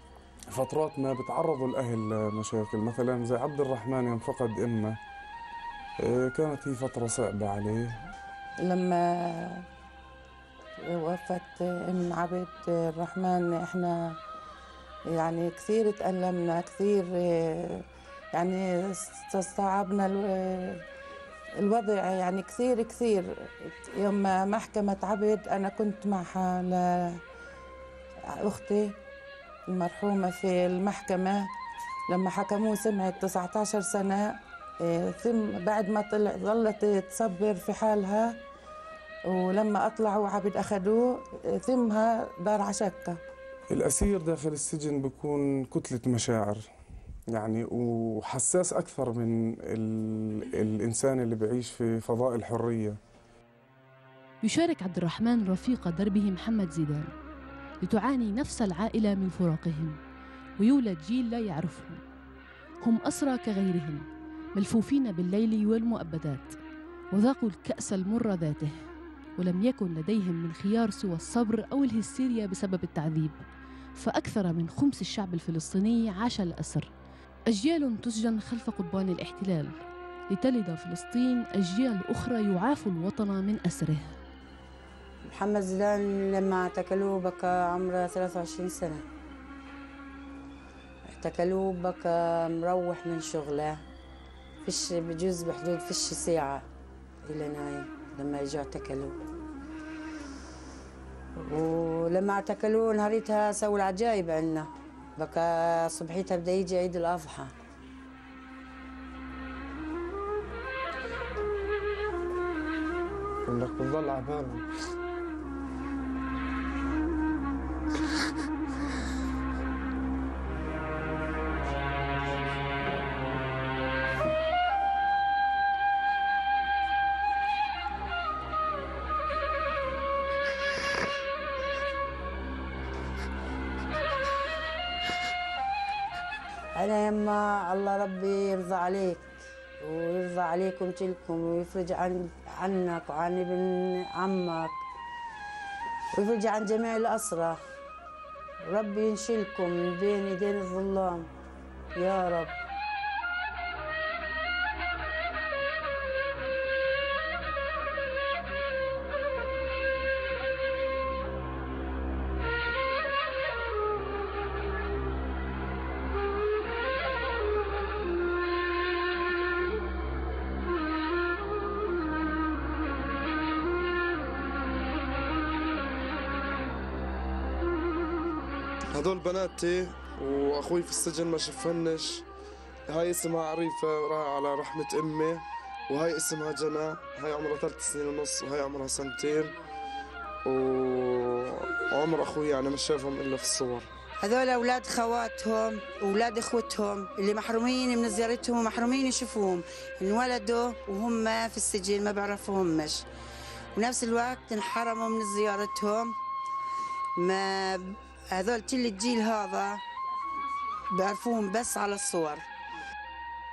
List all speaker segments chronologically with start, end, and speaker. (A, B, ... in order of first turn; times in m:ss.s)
0:00.5-0:05.0 A
0:06.0-0:07.9 A
0:08.6-0:09.6 B
0:10.9-0:14.2 B
0:15.1-0:20.8 B
0:21.6-0:27.2 B
0:28.4-0:28.9 B
0:29.7-0:31.5 B
0:32.1-0:38.4 B
0:39.3-0:43.2 B
0:43.7-0:46.6 A
0:47.3-0:53.0 A
0:54.4-0:57.1 C
0:57.8-1:00.0 C
1:00.6-1:02.0 C
1:02.8-1:06.6 C
1:07.1-1:08.8 C
1:09.4-1:13.4 C
1:14.0-1:16.9 C
1:17.5-1:19.8 C
1:20.3-1:24.2 C
1:25.2-1:29.0 D
1:31.1-1:33.8 D
1:34.6-1:36.7 D
1:37.2-1:39.2 D
1:41.4-1:47.6 D
1:53.5-1:54.6 E
2:16.8-2:24.8 D
2:26.1-2:27.6 D
2:28.6-2:31.3 D
2:32.0-2:32.6 D
2:58.9-3:02.2 E
3:02.9-3:09.5 E
3:10.5-3:13.9 E
3:14.2-3:23.1 D
3:23.8-3:26.2 D
3:27.2-3:29.8 D
3:30.9-3:32.5 D